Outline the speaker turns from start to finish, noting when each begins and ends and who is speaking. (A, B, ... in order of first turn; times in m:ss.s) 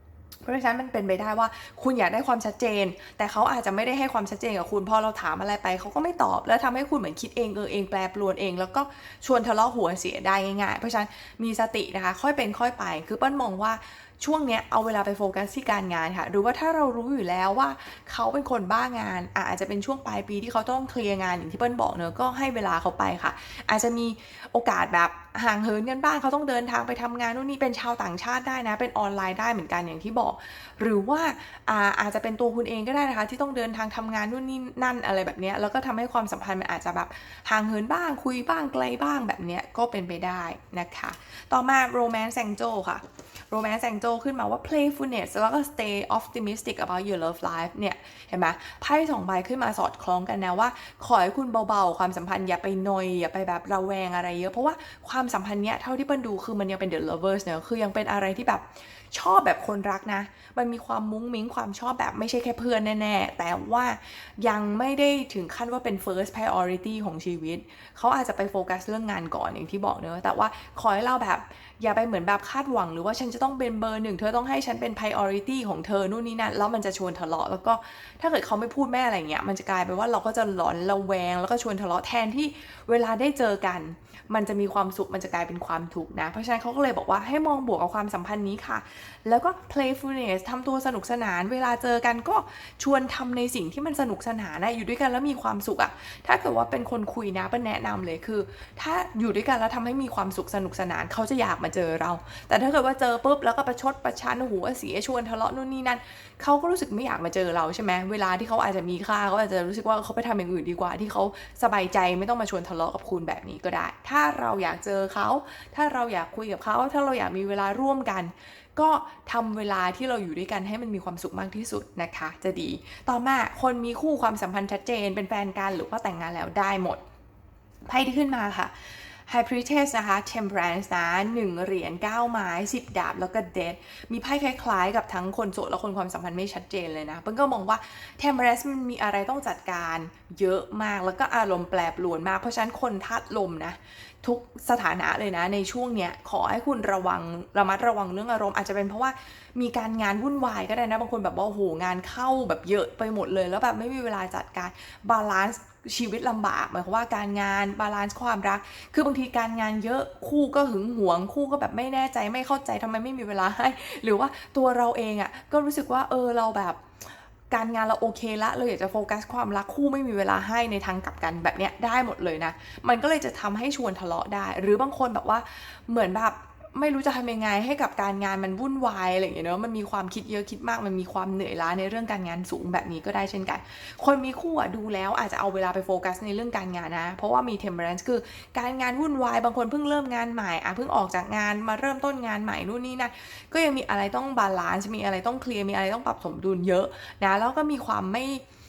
0:00.4-2:07.0 A
2:07.8-2:46.8 A
2:47.5-3:18.4 A